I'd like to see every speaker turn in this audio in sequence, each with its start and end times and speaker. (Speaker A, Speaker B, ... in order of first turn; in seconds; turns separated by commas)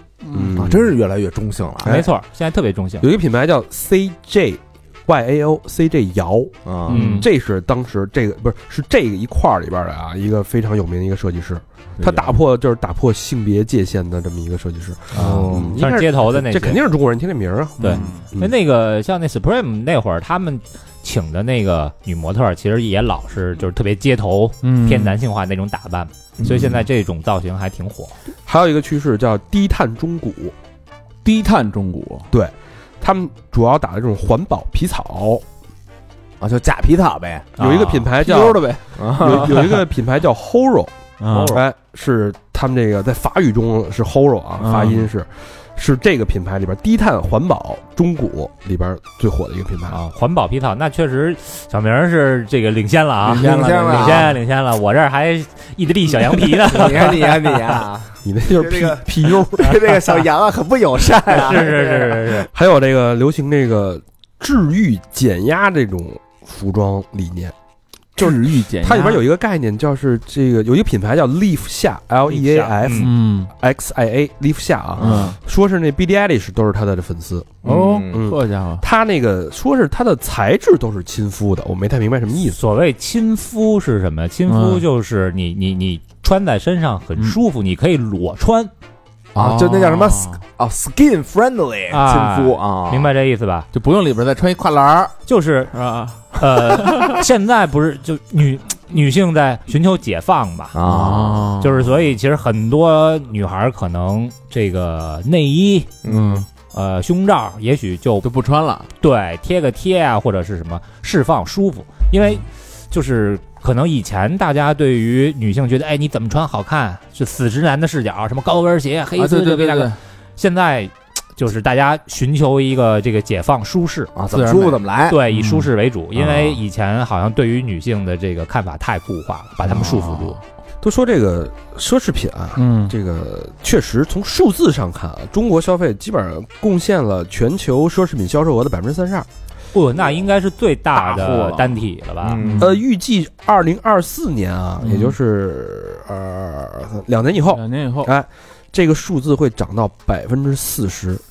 Speaker A: 0.2-0.6, Speaker B: 0.3-0.9, Speaker C: 0.6-2.0, Speaker B: 1.8-2.1, Speaker D: 1.8-3.1, Speaker B: 3.0-18.5, Speaker C: 6.7-7.0, Speaker A: 6.9-7.3, Speaker D: 6.9-7.3, Speaker A: 12.0-12.4, Speaker C: 15.1-15.8, Speaker D: 15.2-16.8, Speaker A: 17.8-18.2, Speaker D: 17.8-28.2, Speaker A: 24.6-25.2, Speaker C: 26.4-26.8, Speaker B: 28.5-30.5, Speaker A: 31.2-32.3, Speaker B: 32.3-35.4, Speaker C: 36.4-37.5, Speaker D: 37.6-38.1, Speaker B: 37.6-40.9, Speaker A: 38.2-39.7, Speaker C: 39.0-39.7, Speaker A: 41.2-41.6, Speaker D: 41.3-41.6, Speaker B: 41.5-50.0, Speaker A: 44.6-45.1, Speaker D: 49.9-57.8, Speaker A: 53.3-54.4, Speaker C: 53.3-54.4, Speaker C: 56.5-62.4, Speaker B: 58.2-60.2, Speaker D: 61.3-62.5, Speaker B: 62.5-67.5, Speaker B: 68.2-82.6, Speaker A: 68.2-69.2, Speaker D: 72.3-73.1, Speaker A: 73.0-73.5, Speaker C: 75.0-75.3, Speaker A: 75.0-75.4, Speaker A: 77.6-78.8, Speaker C: 77.6-78.2, Speaker D: 82.5-88.7, Speaker A: 84.5-84.8, Speaker C: 89.3-93.1, Speaker A: 89.4-90.4, Speaker D: 91.9-93.7, Speaker A: 93.7-95.2, Speaker D: 95.3-95.8, Speaker A: 95.7-97.2, Speaker D: 96.3-100.8, Speaker C: 100.7-101.6, Speaker A: 100.8-101.9, Speaker D: 101.6-105.9, Speaker C: 106.0-106.5, Speaker A: 106.0-106.5, Speaker D: 106.7-108.3, Speaker A: 108.2-108.9, Speaker D: 109.0-124.1, Speaker A: 119.2-120.0, Speaker C: 124.1-125.2, Speaker A: 124.3-124.8, Speaker D: 125.1-130.4, Speaker A: 125.3-125.7, Speaker A: 129.6-130.4, Speaker B: 130.8-139.3, Speaker A: 132.6-132.9, Speaker D: 139.7-142.4, Speaker A: 140.9-141.8, Speaker C: 142.2-142.8, Speaker A: 142.4-142.8, Speaker B: 142.6-151.2, Speaker A: 144.8-145.1, Speaker A: 147.5-148.1